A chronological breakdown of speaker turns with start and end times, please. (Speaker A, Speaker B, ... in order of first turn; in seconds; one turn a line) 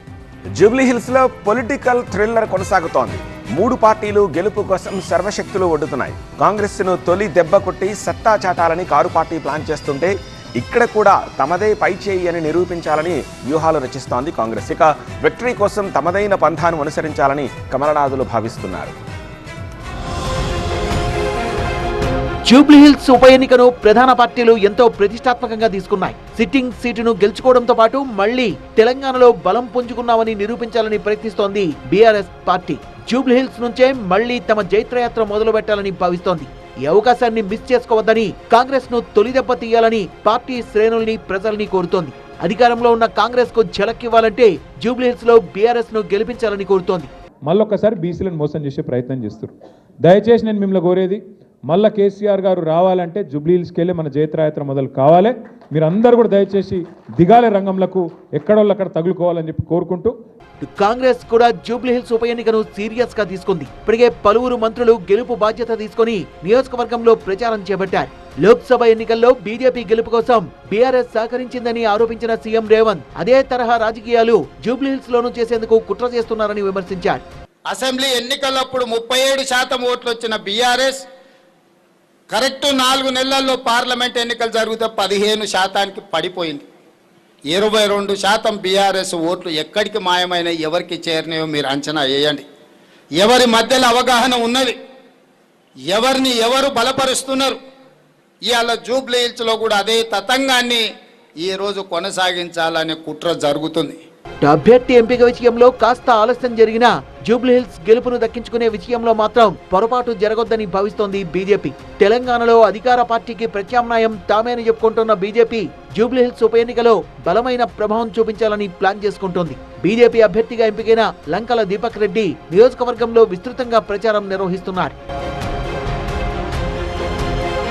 Speaker A: 0.5-18.9
Speaker B: 22.5-47.1
Speaker C: 47.5-49.5
Speaker C: 50.0-60.1
Speaker B: 60.6-77.2
Speaker D: 77.7-81.1
Speaker D: 82.3-86.6
Speaker D: 87.5-92.4
Speaker D: 93.2-94.8
Speaker D: 95.9-97.6
Speaker D: 98.5-100.8
Speaker D: 101.4-104.0
Speaker B: 104.4-125.0